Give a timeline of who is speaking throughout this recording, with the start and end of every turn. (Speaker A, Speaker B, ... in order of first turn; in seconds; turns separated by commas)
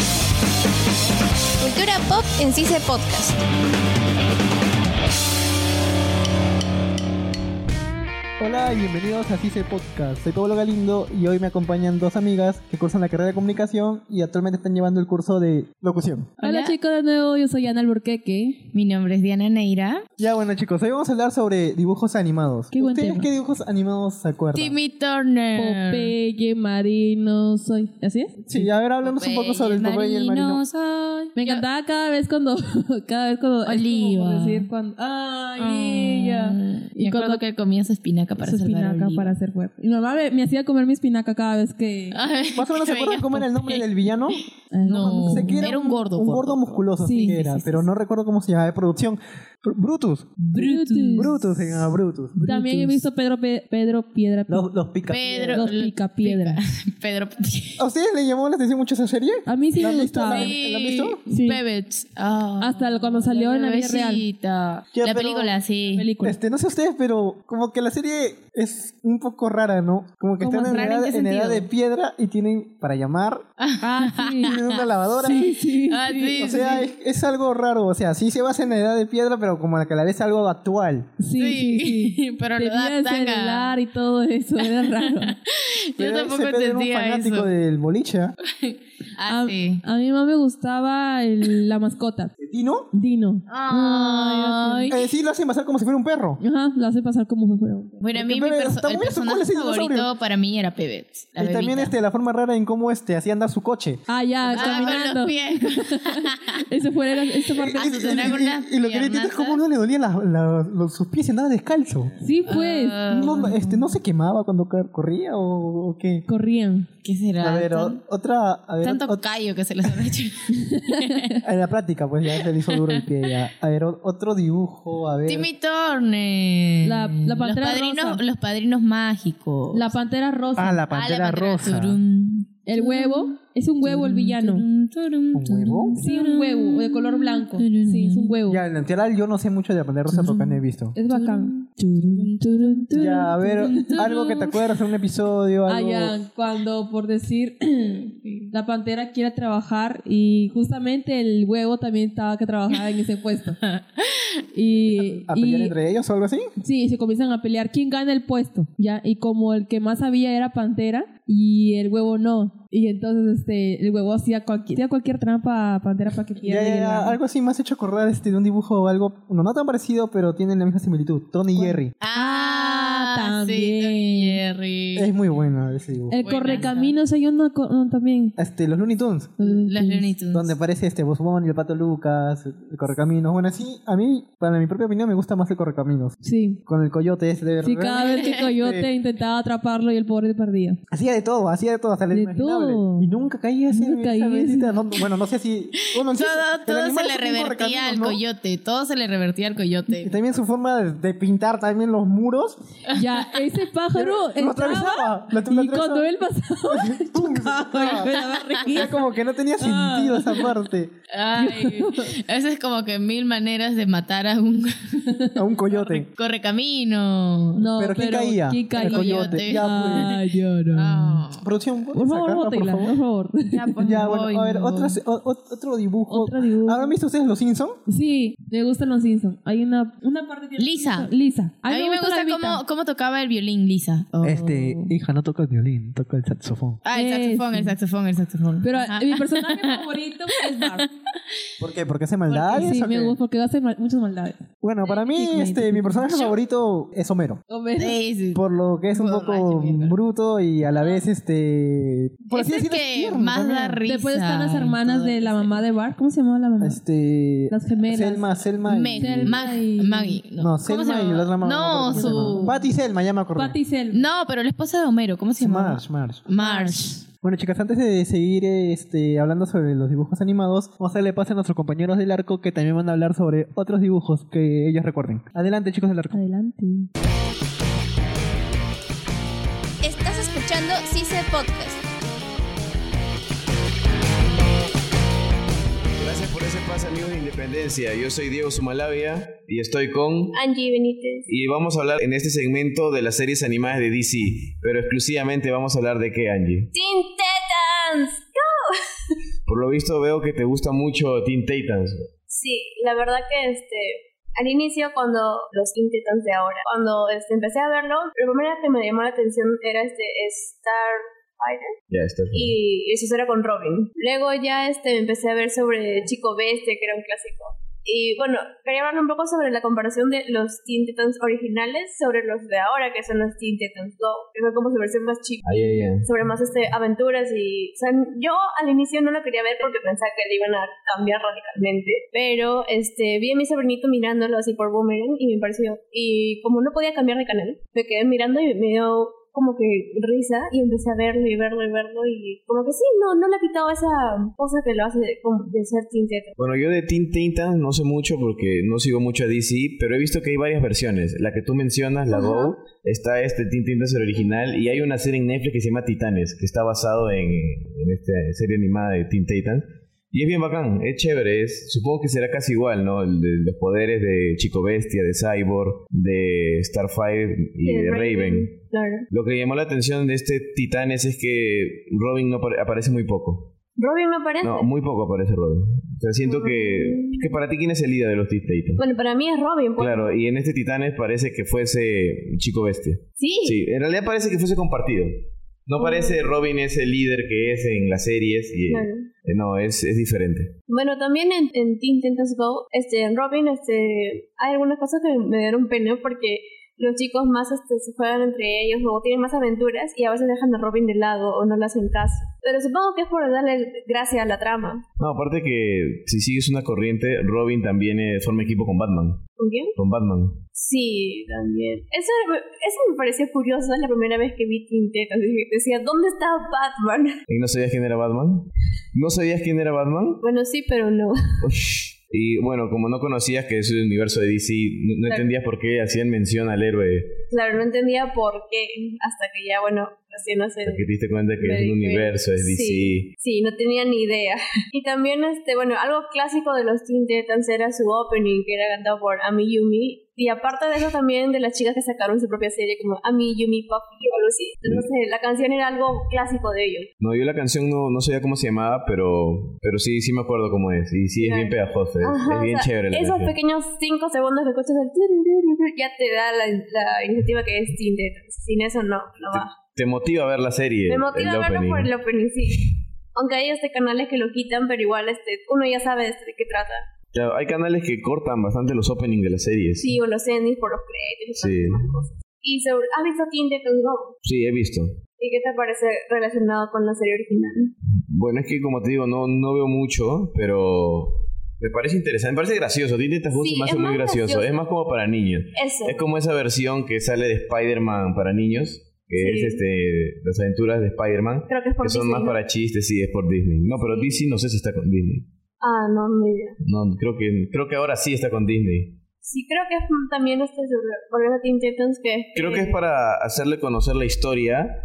Speaker A: 1.6-3.4, Speaker B: 8.4-16.3, Speaker C: 16.4-16.7, Speaker D: 16.4-18.6, Speaker C: 18.7-20.0, Speaker B: 20.2-24.8, Speaker D: 22.7-23.3, Speaker C: 24.5-26.1, Speaker D: 25.5-28.4, Speaker B: 28.5-30.6, Speaker C: 29.0-31.6, Speaker D: 31.4-37.4, Speaker C: 33.6-34.7, Speaker C: 35.6-39.4, Speaker D: 38.4-42.1, Speaker C: 42.1-47.8, Speaker B: 42.5-44.4, Speaker D: 44.7-45.7, Speaker B: 45.2-50.4, Speaker D: 47.0-47.4, Speaker C: 50.4-53.1, Speaker D: 50.5-51.3, Speaker B: 51.1-52.4, Speaker D: 52.4-54.6, Speaker B: 54.5-55.6, Speaker C: 55.1-57.8, Speaker D: 55.5-56.6, Speaker B: 57.8-61.2, Speaker D: 59.5-60.5, Speaker C: 60.3-66.1, Speaker D: 61.3-61.6, Speaker D: 62.6-64.2, Speaker B: 64.9-65.5, Speaker D: 65.9-66.4, Speaker B: 66.2-73.4, Speaker D: 70.4-71.0, Speaker C: 70.4-71.7, Speaker C: 73.6-74.5, Speaker D: 73.8-74.5, Speaker B: 74.4-75.5, Speaker D: 75.3-76.7, Speaker C: 75.3-76.8, Speaker B: 76.4-81.1, Speaker D: 81.2-85.3, Speaker C: 81.3-83.8, Speaker C: 84.6-87.5, Speaker B: 86.0-88.3, Speaker C: 88.6-89.8, Speaker D: 89.2-92.3, Speaker B: 92.4-92.9, Speaker D: 92.9-95.0, Speaker C: 93.5-95.0, Speaker B: 94.9-96.4, Speaker D: 96.4-98.0, Speaker C: 98.0-101.9, Speaker B: 98.1-100.1, Speaker B: 101.4-105.0, Speaker D: 104.1-108.4, Speaker C: 104.5-106.5, Speaker C: 107.3-109.6, Speaker B: 107.5-112.1, Speaker D: 112.2-113.5, Speaker C: 112.4-113.9, Speaker B: 113.1-116.2, Speaker D: 116.3-116.9, Speaker C: 117.0-118.0, Speaker B: 117.4-119.2, Speaker C: 118.8-121.4, Speaker B: 121.4-125.5, Speaker C: 122.4-123.2, Speaker C: 125.2-129.9, Speaker D: 126.8-128.2, Speaker D: 129.7-130.8, Speaker B: 130.6-132.0, Speaker C: 130.9-138.3, Speaker D: 132.7-134.7, Speaker B: 135.3-136.0, Speaker D: 136.0-138.6, Speaker B: 138.4-140.9, Speaker C: 140.1-144.6, Speaker D: 140.9-144.1, Speaker B: 142.9-146.2, Speaker D: 145.7-153.6, Speaker C: 148.2-148.5, Speaker C: 153.7-154.2, Speaker D: 154.5-155.8, Speaker B: 154.8-156.5, Speaker D: 156.6-167.2, Speaker B: 166.4-171.9, Speaker D: 171.5-174.4, Speaker C: 172.0-175.1, Speaker B: 174.9-176.6, Speaker D: 176.1-178.3, Speaker C: 176.2-176.9, Speaker B: 178.4-179.3, Speaker D: 179.4-180.1, Speaker C: 179.4-180.5, Speaker B: 180.3-188.9, Speaker D: 186.2-186.6, Speaker D: 187.6-190.8, Speaker C: 188.0-188.4, Speaker B: 190.9-198.2, Speaker D: 192.1-193.1, Speaker D: 193.7-194.8, Speaker C: 196.0-200.2, Speaker B: 199.9-202.6, Speaker D: 202.9-208.9, Speaker B: 203.9-206.1, Speaker B: 206.7-208.1, Speaker C: 208.1-208.5, Speaker B: 208.7-210.9, Speaker D: 209.6-210.6, Speaker C: 211.1-214.7, Speaker D: 211.3-212.0, Speaker B: 215.3-216.1, Speaker C: 215.7-217.7, Speaker D: 217.6-221.2, Speaker B: 217.8-220.1, Speaker C: 218.8-220.2, Speaker C: 220.7-221.4, Speaker B: 221.3-222.9, Speaker D: 221.9-223.7, Speaker C: 223.5-225.0, Speaker B: 223.8-227.8, Speaker D: 226.1-226.9, Speaker D: 227.9-232.6, Speaker C: 230.6-231.1, Speaker C: 231.7-234.9, Speaker B: 234.2-236.8, Speaker C: 236.8-239.9, Speaker D: 236.9-237.7, Speaker D: 238.6-240.9, Speaker C: 240.6-240.9, Speaker B: 241.6-243.2, Speaker C: 242.3-242.7, Speaker D: 242.6-244.4, Speaker B: 244.6-247.4, Speaker D: 245.1-246.2, Speaker D: 247.5-248.0, Speaker C: 247.8-250.0, Speaker B: 248.3-253.8, Speaker C: 250.7-251.0, Speaker C: 252.3-255.6, Speaker D: 253.8-256.8, Speaker B: 254.9-255.1, Speaker B: 256.6-259.4, Speaker D: 257.5-258.3, Speaker C: 258.6-262.6, Speaker D: 259.0-260.2, Speaker B: 260.4-263.6, Speaker D: 261.9-262.7, Speaker D: 263.4-264.0, Speaker C: 263.9-267.0, Speaker B: 265.4-266.2, Speaker D: 266.4-267.0, Speaker B: 267.2-276.2, Speaker D: 276.1-276.9, Speaker A: 279.8-281.8, Speaker E: 286.0-290.4, Speaker F: 290.3-291.3, Speaker E: 291.3-296.7, Speaker F: 296.7-298.5, Speaker E: 299.4-302.1, Speaker F: 302.3-311.7, Speaker E: 311.9-312.6, Speaker F: 312.3-346.3, Speaker E: 325.4-326.1, Speaker E: 346.4-368.5, Speaker F: 352.1-352.6, Speaker F: 367.6-369.1, Speaker E: 369.1-373.5, Speaker F: 373.8-374.7, Speaker E: 374.4-378.8, Speaker F: 376.2-377.4, Speaker F: 378.8-380.2, Speaker E: 379.8-385.1, Speaker F: 383.2-383.6, Speaker E: 385.6-390.6, Speaker F: 385.8-386.3, Speaker F: 388.7-389.1, Speaker F: 390.7-404.8, Speaker E: 405.0-409.2, Speaker F: 409.4-409.7, Speaker E: 409.7-410.4, Speaker F: 410.5-417.1, Speaker E: 417.3-420.2, Speaker F: 420.2-421.1, Speaker E: 421.4-427.2, Speaker F: 425.0-425.3, Speaker F: 427.3-430.8, Speaker E: 430.6-433.1, Speaker F: 431.4-446.9, Speaker E: 447.0-453.3, Speaker F: 451.1-459.5, Speaker E: 459.3-461.9, Speaker F: 460.9-466.8, Speaker E: 467.1-470.0, Speaker F: 469.8-474.1, Speaker E: 471.4-472.0, Speaker E: 474.2-474.9, Speaker F: 475.2-477.7, Speaker E: 478.1-495.3, Speaker F: 483.3-484.5, Speaker F: 485.5-486.0, Speaker F: 489.1-489.6, Speaker F: 491.4-492.4, Speaker F: 493.7-494.2, Speaker F: 495.6-496.6, Speaker E: 496.6-499.0, Speaker F: 499.2-502.8, Speaker E: 502.3-504.7